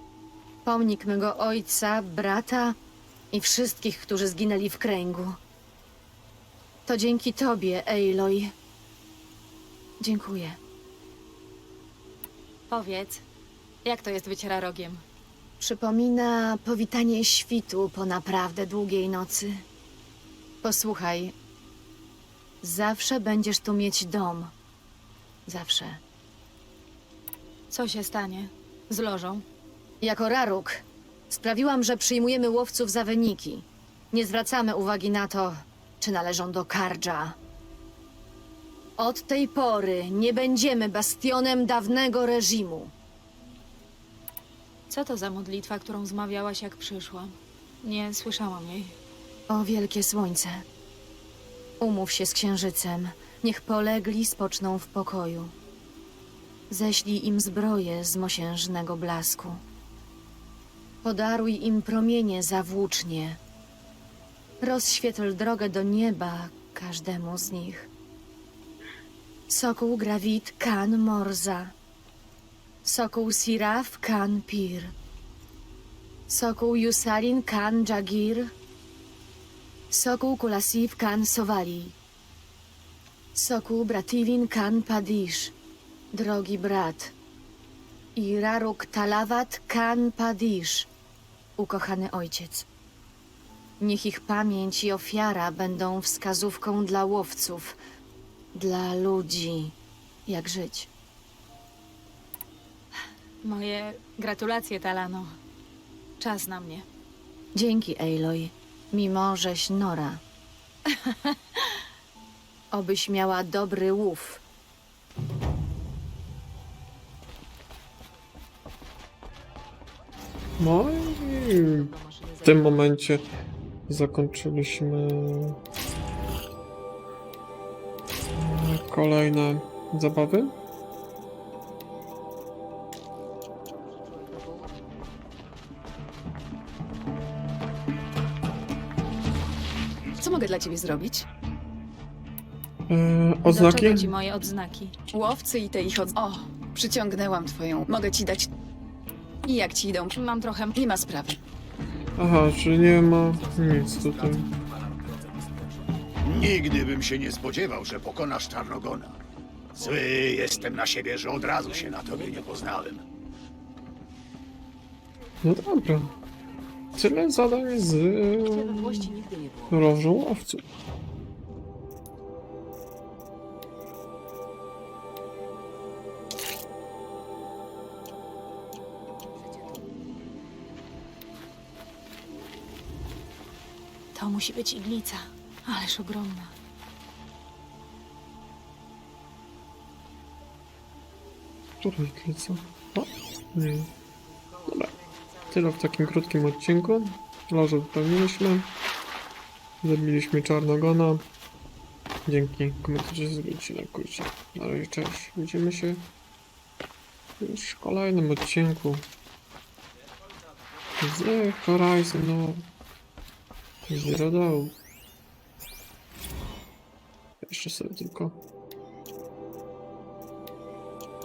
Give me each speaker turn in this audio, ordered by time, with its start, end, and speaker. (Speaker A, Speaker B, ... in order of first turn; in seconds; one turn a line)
Speaker A: 0.6-2.8
Speaker A: 3.3-5.4
Speaker A: 6.8-8.5
Speaker A: 10.0-10.6
Speaker B: 12.7-13.2
Speaker B: 13.8-15.0
Speaker A: 15.6-19.6
Speaker A: 20.6-21.3
Speaker A: 22.6-24.5
Speaker A: 25.4-26.0
Speaker B: 27.7-29.4
Speaker A: 30.0-37.4
Speaker A: 39.0-42.9
Speaker B: 44.9-49.0
Speaker A: 49.5-50.6
Speaker A: 51.8-55.5
Speaker A: 56.7-59.6
Speaker A: 61.0-63.4
Speaker A: 64.6-67.9
Speaker A: 69.5-71.7
Speaker A: 72.8-74.9
Speaker A: 76.3-78.5
Speaker A: 79.9-82.0
Speaker A: 83.3-85.5
Speaker A: 86.1-87.1
Speaker A: 88.2-90.9
Speaker A: 91.6-92.7
Speaker A: 93.8-97.8
Speaker A: 98.5-99.7
Speaker A: 100.2-100.9
Speaker B: 103.4-105.3
Speaker B: 106.2-106.8
Speaker A: 107.5-110.2
Speaker B: 111.0-111.3
Speaker A: 112.7-114.4
Speaker C: 120.6-123.2
Speaker C: 123.9-125.6
Speaker C: 128.3-130.6
Speaker D: 140.2-141.3
Speaker C: 142.9-144.1
Speaker B: 143.4-144.9
Speaker D: 145.1-148.5
Speaker D: 149.4-150.2
Speaker B: 150.1-150.8
Speaker D: 150.7-151.4
Speaker C: 152.2-154.5
Speaker E: 156.2-159.2
Speaker E: 159.7-163.0
Speaker C: 165.4-166.1
Speaker C: 166.9-169.2
Speaker B: 168.4-169.7
Speaker C: 169.7-170.6
Speaker B: 184.1-186.5
Speaker C: 191.8-193.9
Speaker C: 194.7-194.9
Speaker C: 195.5-198.7
Speaker C: 199.8-201.2
Speaker C: 202.2-206.1
Speaker C: 207.4-209.1
Speaker C: 211.0-212.7
Speaker C: 213.8-214.8
Speaker C: 217.4-218.4